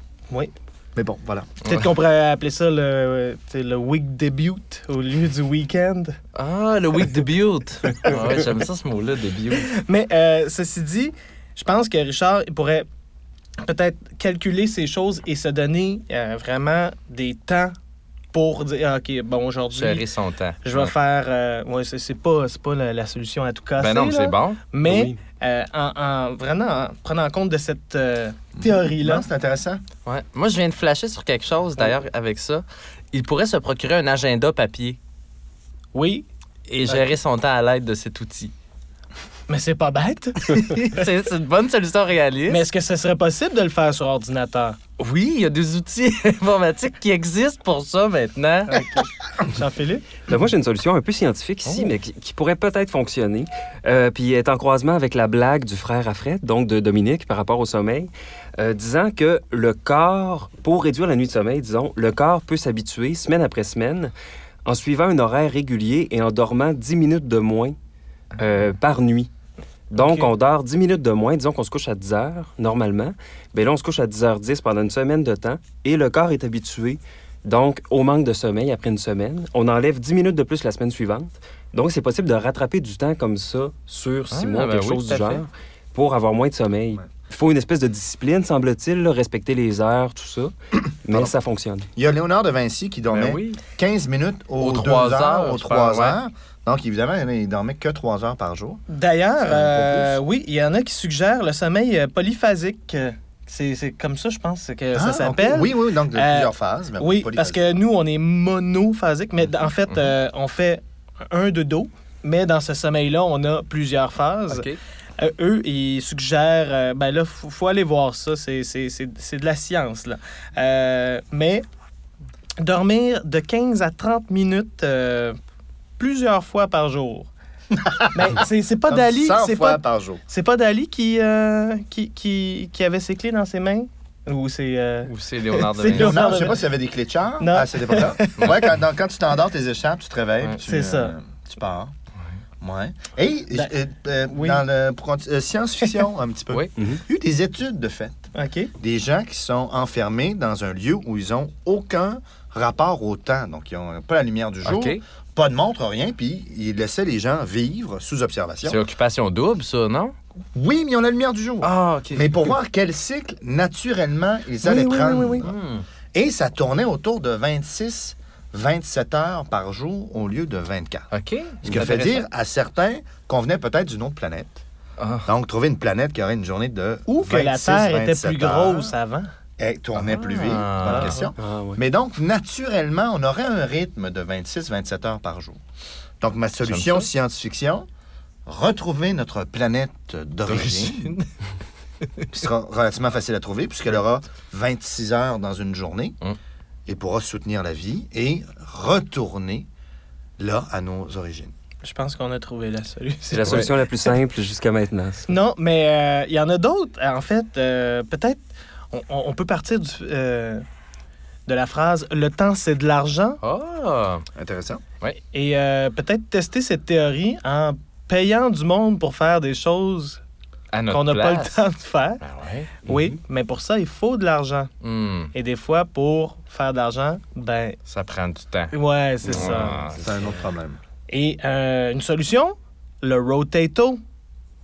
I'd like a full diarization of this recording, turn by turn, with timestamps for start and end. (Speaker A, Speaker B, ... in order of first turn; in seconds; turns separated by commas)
Speaker A: 0.9-1.5, Speaker B: 1.6-6.2, Speaker C: 6.3-9.7, Speaker B: 9.5-12.9, Speaker B: 13.6-17.7, Speaker B: 18.3-20.0, Speaker C: 19.7-20.9, Speaker B: 20.6-29.2, Speaker C: 23.8-24.6, Speaker D: 24.8-25.1, Speaker A: 28.6-29.8, Speaker C: 30.1-35.0, Speaker B: 35.9-36.2, Speaker C: 36.7-38.5, Speaker B: 39.5-41.1, Speaker C: 40.9-42.6, Speaker B: 42.5-44.8, Speaker C: 45.0-49.0, Speaker B: 49.5-50.0, Speaker D: 50.3-64.1, Speaker C: 51.6-51.9, Speaker D: 64.6-67.8, Speaker D: 68.4-69.3, Speaker D: 69.9-91.9, Speaker C: 84.3-85.4, Speaker A: 92.0-98.8, Speaker C: 93.1-93.6, Speaker C: 94.6-96.2, Speaker B: 98.9-114.7, Speaker A: 99.4-100.2, Speaker A: 104.9-107.6, Speaker C: 114.5-114.8, Speaker B: 115.2-121.6, Speaker B: 122.6-125.4, Speaker B: 126.0-127.3, Speaker B: 128.1-135.1, Speaker A: 128.9-130.2, Speaker C: 135.1-136.5, Speaker B: 135.7-136.7, Speaker A: 135.8-141.9, Speaker B: 137.4-138.5, Speaker B: 140.6-141.1, Speaker A: 142.6-148.2, Speaker B: 144.3-144.6, Speaker D: 146.8-147.0, Speaker B: 148.3-148.7, Speaker A: 148.8-158.8, Speaker C: 154.6-155.0, Speaker C: 158.6-160.1, Speaker A: 160.5-165.5, Speaker C: 161.6-162.5, Speaker B: 164.6-165.5, Speaker C: 165.4-165.8, Speaker A: 166.1-171.1, Speaker C: 171.1-172.2, Speaker A: 171.6-174.6, Speaker C: 175.0-175.3, Speaker A: 175.2-178.9, Speaker B: 177.1-179.3, Speaker A: 179.6-185.6, Speaker C: 179.9-181.2, Speaker B: 180.8-181.2, Speaker D: 181.4-181.8, Speaker A: 186.2-187.8, Speaker C: 186.6-187.1, Speaker A: 188.4-191.1, Speaker C: 190.5-191.0, Speaker A: 192.3-196.2, Speaker A: 196.9-199.7, Speaker A: 200.4-201.5, Speaker B: 201.8-204.1, Speaker D: 203.3-205.3, Speaker B: 205.3-208.4, Speaker B: 208.9-210.6, Speaker B: 211.5-213.4, Speaker C: 213.4-214.2, Speaker A: 214.3-214.8, Speaker B: 215.3-220.2, Speaker C: 220.7-221.6, Speaker B: 220.9-222.2, Speaker C: 222.2-222.8, Speaker B: 222.8-224.7, Speaker D: 222.9-223.1, Speaker C: 224.8-225.3, Speaker B: 225.3-227.8, Speaker C: 227.9-228.7, Speaker B: 228.7-229.8, Speaker C: 229.2-230.4, Speaker A: 230.0-230.8, Speaker B: 231.1-234.0